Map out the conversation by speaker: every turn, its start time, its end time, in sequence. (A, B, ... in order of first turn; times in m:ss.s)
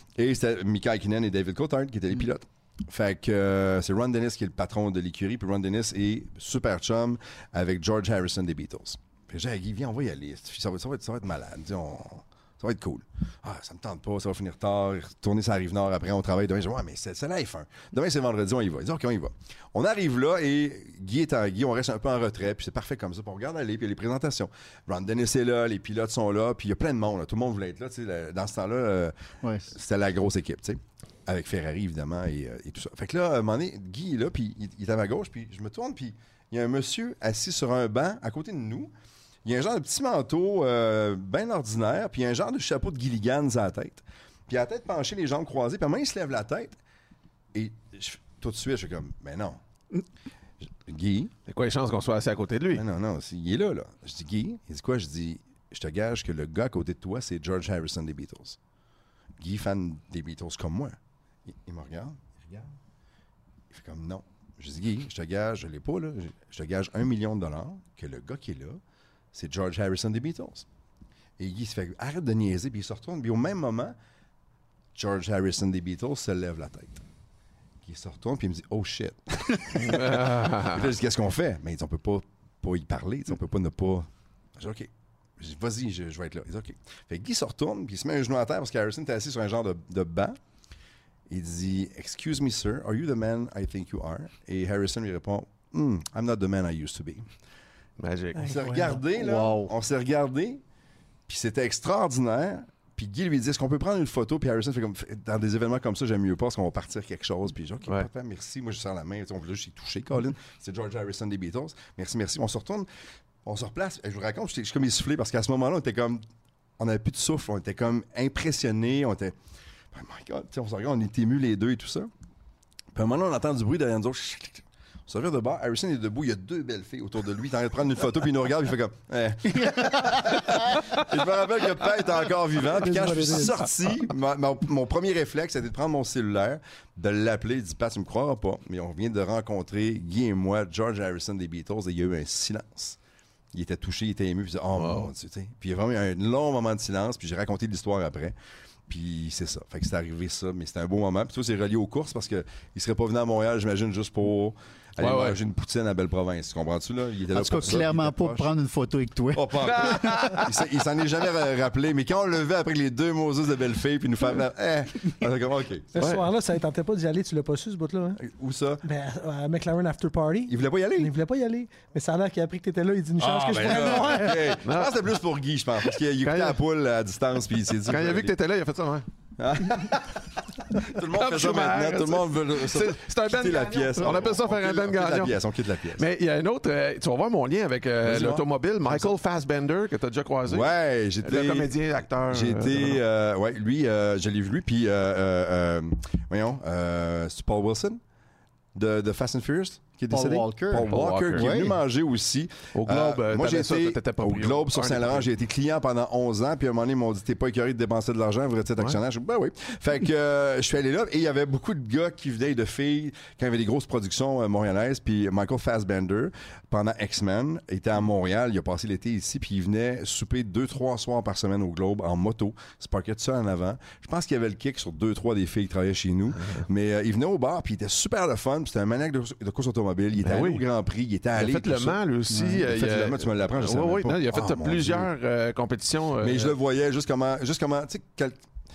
0:00.2-0:29.1 A
0:29.4-0:29.7 B
0:29.7-0:38.9 A
0:39.4-0:46.8 A
0:47.5-0:49.6 A
0:50.8-0:51.3 A
0:51.5-0:52.8 C
0:52.8-0:58.6 A
0:59.4-1:01.0 A
1:01.5-1:02.7 A
1:03.7-1:08.8 A
1:09.3-1:10.7 A
1:11.4-1:14.0 A
1:15.0-1:17.0 A
1:17.8-1:30.4 A
1:19.8-1:20.9 C
1:31.3-1:37.2 A
1:38.0-1:38.6 C
1:38.4-1:39.0 D
1:38.4-1:40.6 A
1:39.1-1:39.7 B
1:41.3-1:52.9 A
1:53.4-1:56.2 A
1:56.8-1:59.4 A
1:59.9-2:02.1 A
2:03.0-2:23.0 A
2:09.6-2:10.7 B
2:12.7-2:13.6 D
2:23.5-2:28.4 A
2:24.8-2:25.1 C
2:28.9-2:38.5 A
2:35.0-2:35.4 C
2:37.3-2:40.4 B
2:39.3-2:45.9 A
2:39.6-2:40.5 C
2:45.9-2:48.2 D
2:46.0-2:46.3 C
2:48.2-2:48.8 A
2:48.8-2:54.6 D
2:50.5-2:51.1 A
2:53.2-2:58.3 A
2:54.6-2:55.0 C
2:56.2-2:56.6 C
2:57.9-2:59.0 C
2:59.4-3:06.0 A
3:00.9-3:05.4 C
3:06.0-3:10.7 C
3:08.0-3:09.1 A
3:10.5-3:11.7 A
3:11.2-3:13.0 C
3:12.3-3:18.0 A
3:18.8-3:52.0 A
3:20.1-3:21.8 B
3:20.9-3:21.5 C
3:22.7-3:25.3 C
3:50.2-3:50.6 C
3:51.3-3:56.6 C
3:52.3-3:52.6 B
3:52.6-3:55.1 A
3:56.2-3:58.4 A